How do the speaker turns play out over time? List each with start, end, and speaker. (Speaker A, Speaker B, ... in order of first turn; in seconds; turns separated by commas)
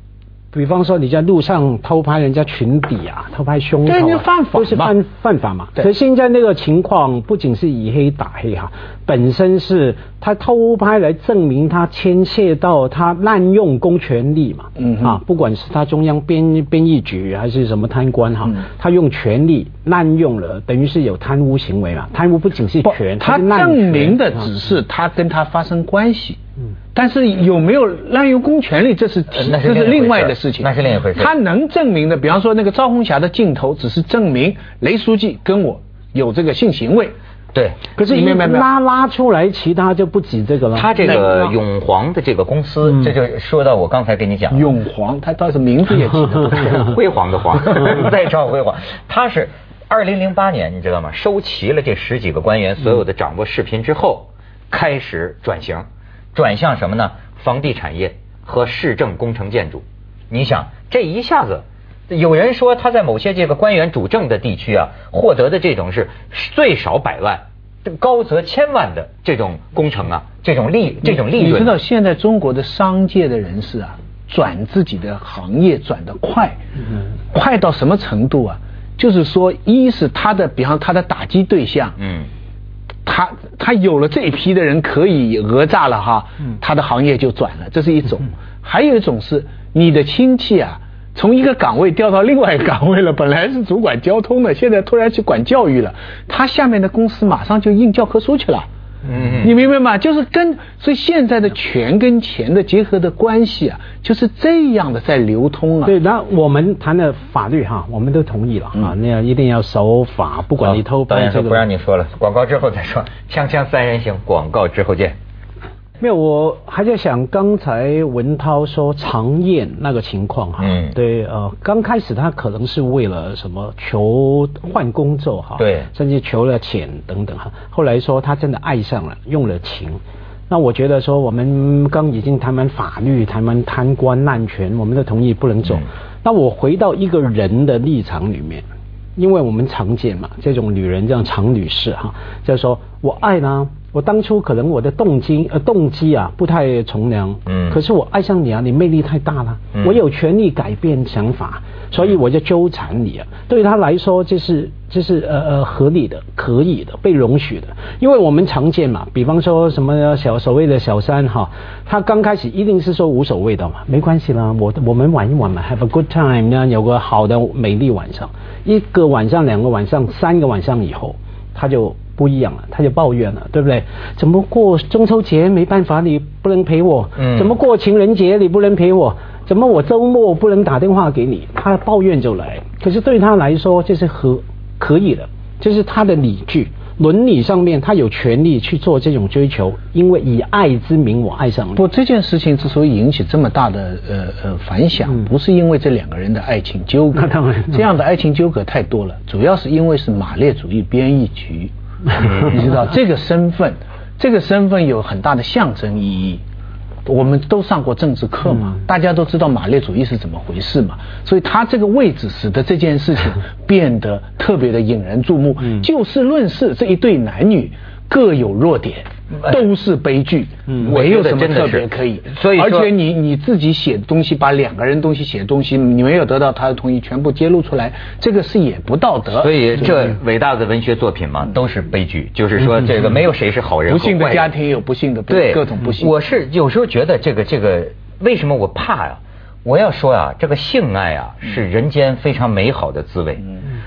Speaker A: 0.5-24.5, Speaker B: 3.9-5.0, Speaker B: 14.8-15.2, Speaker B: 22.9-26.4, Speaker B: 26.9-37.1, Speaker C: 29.3-31.3, Speaker C: 37.5-37.8, Speaker A: 38.0-41.5, Speaker B: 38.1-38.7, Speaker C: 40.7-44.7, Speaker B: 44.5-47.0, Speaker C: 46.6-71.8, Speaker B: 71.0-76.6, Speaker B: 77.3-82.0, Speaker C: 82.0-82.3, Speaker B: 83.1-98.7, Speaker C: 99.0-99.5, Speaker B: 99.4-105.9, Speaker A: 105.8-111.7, Speaker C: 110.6-115.2, Speaker A: 116.0-138.7, Speaker C: 120.6-121.0, Speaker C: 125.6-125.9, Speaker A: 139.2-191.8, Speaker C: 147.5-147.8, Speaker C: 149.8-150.0, Speaker C: 177.2-177.6, Speaker B: 191.8-201.7, Speaker A: 197.1-197.9, Speaker C: 202.2-202.7, Speaker B: 202.5-206.4, Speaker B: 207.1-230.0, Speaker C: 220.8-222.9, Speaker C: 229.3-234.5, Speaker B: 233.9-236.1, Speaker C: 235.3-243.5